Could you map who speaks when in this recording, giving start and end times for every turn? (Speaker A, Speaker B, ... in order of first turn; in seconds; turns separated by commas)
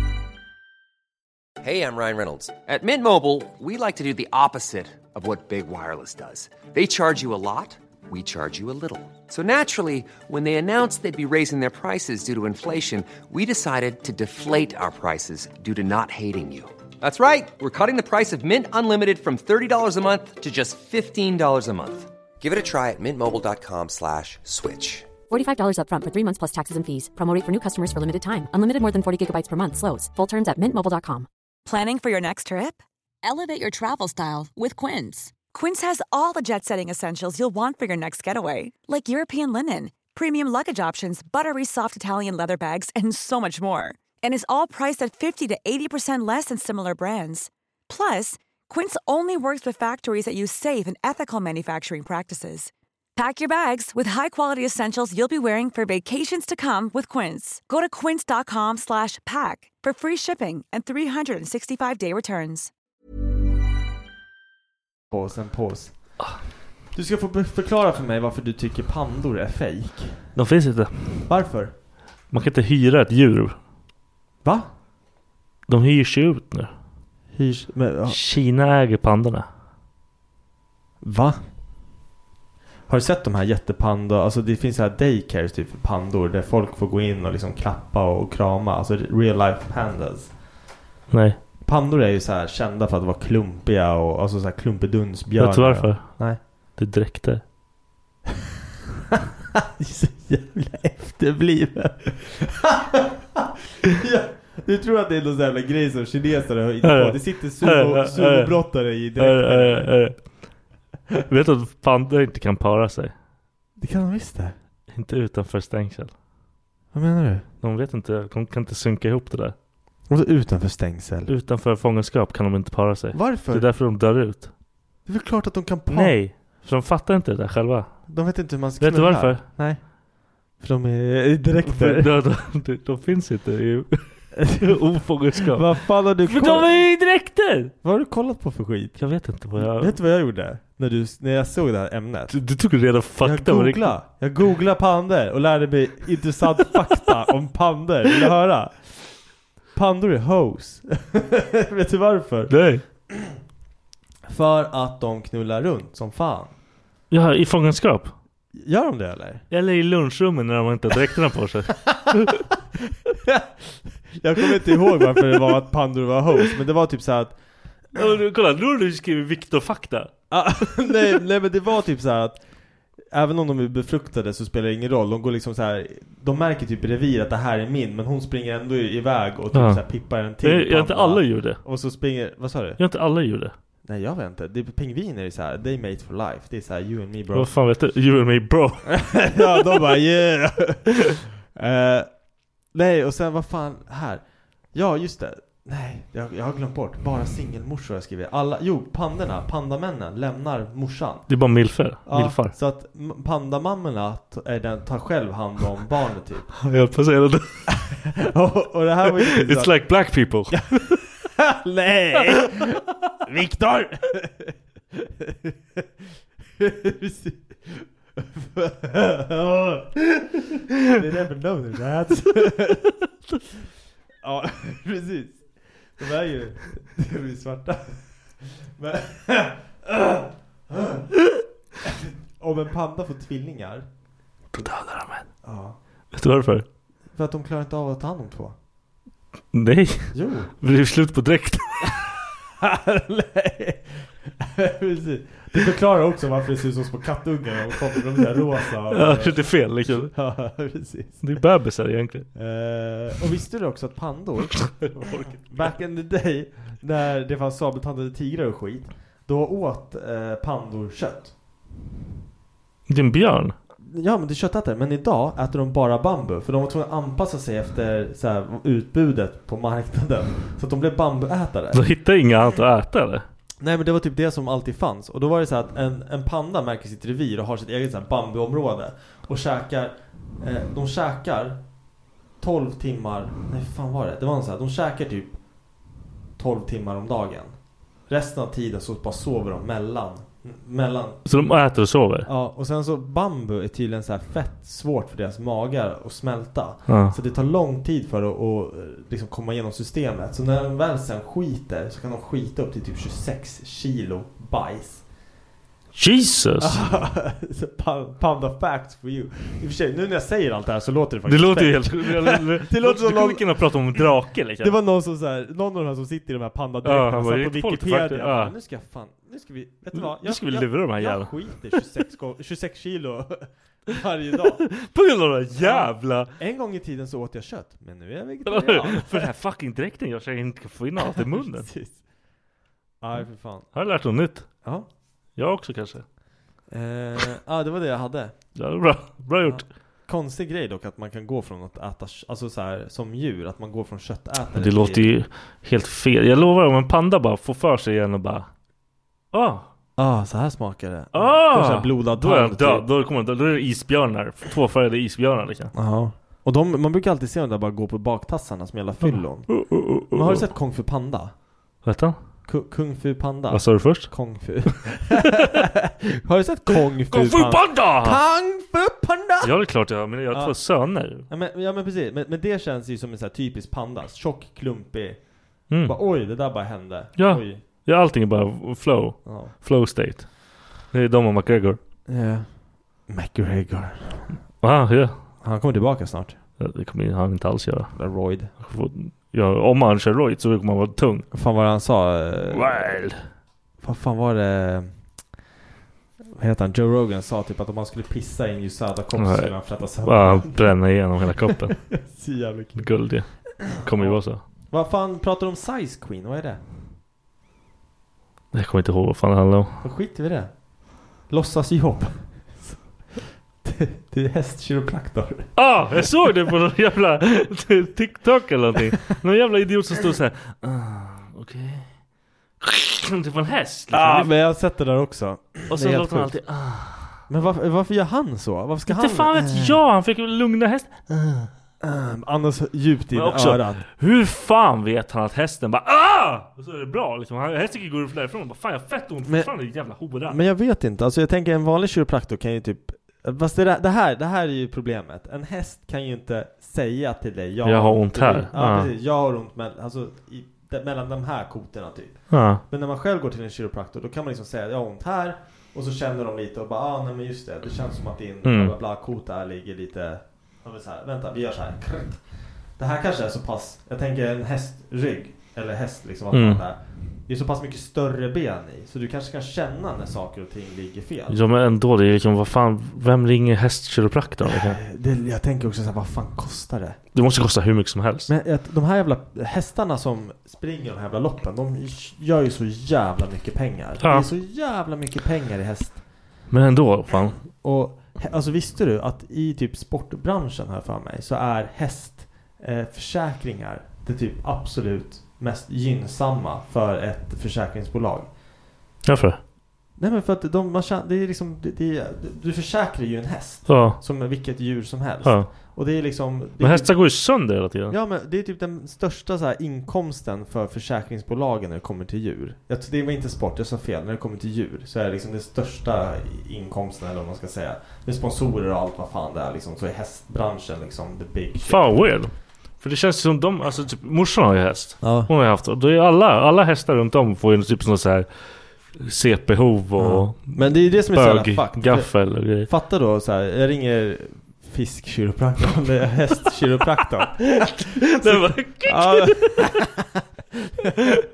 Speaker A: 1.6-25.1, Speaker B: 25.3-31.3, Speaker C: 31.6-62.7, Speaker D: 65.1-66.2, Speaker D: 66.9-70.3, Speaker E: 70.3-71.3, Speaker D: 71.3-71.7, Speaker E: 72.3-73.6, Speaker D: 74.4-74.7, Speaker E: 75.7-76.7, Speaker D: 77.3-78.2, Speaker E: 78.1-79.5, Speaker D: 81.0-81.4, Speaker D: 82.9-90.3, Speaker E: 91.1-91.4, Speaker D: 91.6-96.4, Speaker E: 95.3-97.4, Speaker D: 99.8-109.9, Speaker E: 106.8-110.2, Speaker E: 111.2-113.1, Speaker D: 113.8-114.5, Speaker E: 114.9-116.1, Speaker D: 116.9-117.5, Speaker E: 117.6-119.5, Speaker D: 120.1-121.3, Speaker E: 121.3-124.5, Speaker D: 123.1-123.7, Speaker D: 125.0-126.2, Speaker E: 125.9-128.1, Speaker D: 128.1-129.9, Speaker E: 128.8-129.4, Speaker D: 130.6-132.1, Speaker E: 131.7-137.7, Speaker D: 134.3-134.7, Speaker D: 135.5-136.8, Speaker D: 137.8-142.4, Speaker E: 139.0-140.0, Speaker E: 142.3-143.9, Speaker D: 143.2-152.5, Speaker E: 146.6-147.0, Speaker E: 152.5-152.8, Speaker D: 153.1-153.3, Speaker D: 154.3-156.5, Speaker E: 157.1-158.1, Speaker D: 158.6-159.4, Speaker E: 159.5-162.4, Speaker D: 163.2-167.4, Speaker E: 164.6-165.2, Speaker E: 167.9-170.1, Speaker D: 170.3-172.4, Speaker D: 173.1-182.8, Speaker E: 179.5-181.6, Speaker E: 182.8-183.5, Speaker D: 183.8-187.5, Speaker E: 187.3-189.4, Speaker D: 188.9-192.1, Speaker D: 192.7-201.3, Speaker E: 201.3-202.6, Speaker D: 202.0-206.5, Speaker E: 206.6-207.7, Speaker D: 208.2-215.8, Speaker E: 209.0-211.0, Speaker D: 216.6-220.3, Speaker D: 220.9-222.9, Speaker D: 224.2-231.0, Speaker D: 231.8-233.8, Speaker E: 234.5-235.3, Speaker D: 235.4-235.8, Speaker E: 236.1-236.7, Speaker D: 237.1-238.5, Speaker E: 239.5-242.1, Speaker D: 240.1-240.5, Speaker D: 242.6-251.4, Speaker E: 248.9-250.1, Speaker E: 251.2-252.3, Speaker D: 252.3-261.3, Speaker E: 254.5-255.8, Speaker E: 262.9-263.5, Speaker D: 263.8-271.8, Speaker E: 271.7-273.2, Speaker D: 273.6-281.6, Speaker D: 282.4-285.4, Speaker D: 286.4-291.3, Speaker E: 291.2-292.3, Speaker D: 292.2-305.0, Speaker E: 296.9-297.1, Speaker E: 305.9-306.8, Speaker D: 306.6-314.1, Speaker E: 311.2-314.7, Speaker D: 314.6-324.7, Speaker E: 316.8-318.5, Speaker E: 319.9-321.8, Speaker E: 324.7-326.3, Speaker D: 325.5-329.3, Speaker E: 328.4-331.7, Speaker D: 331.0-332.0, Speaker D: 333.0-333.7, Speaker E: 333.7-334.5, Speaker E: 335.4-336.1, Speaker D: 336.7-338.4, Speaker E: 338.5-339.6, Speaker D: 339.4-345.1, Speaker E: 344.6-348.5, Speaker E: 349.3-349.7, Speaker D: 350.0-352.9, Speaker E: 351.1-355.7, Speaker D: 355.7-361.3, Speaker E: 359.0-360.5, Speaker E: 361.8-362.2, Speaker D: 362.4-369.5, Speaker E: 363.5-364.5, Speaker E: 367.1-368.2, Speaker E: 369.4-371.3, Speaker D: 370.3-377.6, Speaker E: 375.7-376.0, Speaker E: 377.2-381.8, Speaker D: 379.2-379.5, Speaker D: 382.1-384.4, Speaker E: 384.6-385.2, Speaker D: 385.4-386.4, Speaker E: 386.6-391.3, Speaker D: 387.9-388.5, Speaker D: 391.3-393.0, Speaker E: 392.5-393.2, Speaker D: 393.8-394.9, Speaker D: 396.3-401.1, Speaker E: 399.1-401.9, Speaker D: 401.8-406.6, Speaker E: 402.8-404.4, Speaker E: 408.5-409.8, Speaker D: 409.8-410.6, Speaker D: 411.1-415.6, Speaker E: 415.5-421.9, Speaker E: 422.6-424.3, Speaker D: 423.9-426.4, Speaker E: 425.7-427.3, Speaker D: 427.3-429.8, Speaker E: 428.9-431.5, Speaker D: 431.8-433.8, Speaker E: 433.1-440.4, Speaker D: 439.2-439.5, Speaker D: 440.3-462.2, Speaker E: 447.6-448.9, Speaker E: 452.3-452.6, Speaker E: 458.4-458.7, Speaker D: 462.8-471.4, Speaker E: 466.3-466.6, Speaker E: 471.3-474.8, Speaker D: 474.4-477.0, Speaker E: 477.1-478.3, Speaker D: 478.3-486.0, Speaker E: 484.0-484.3, Speaker E: 486.5-487.4, Speaker D: 487.5-498.3, Speaker E: 499.0-499.4, Speaker D: 500.0-522.1, Speaker E: 503.7-504.0, Speaker E: 505.2-505.5, Speaker E: 506.6-507.9, Speaker E: 521.6-528.3, Speaker D: 525.0-525.3, Speaker E: 528.9-532.7, Speaker D: 530.0-539.9, Speaker E: 538.1-539.7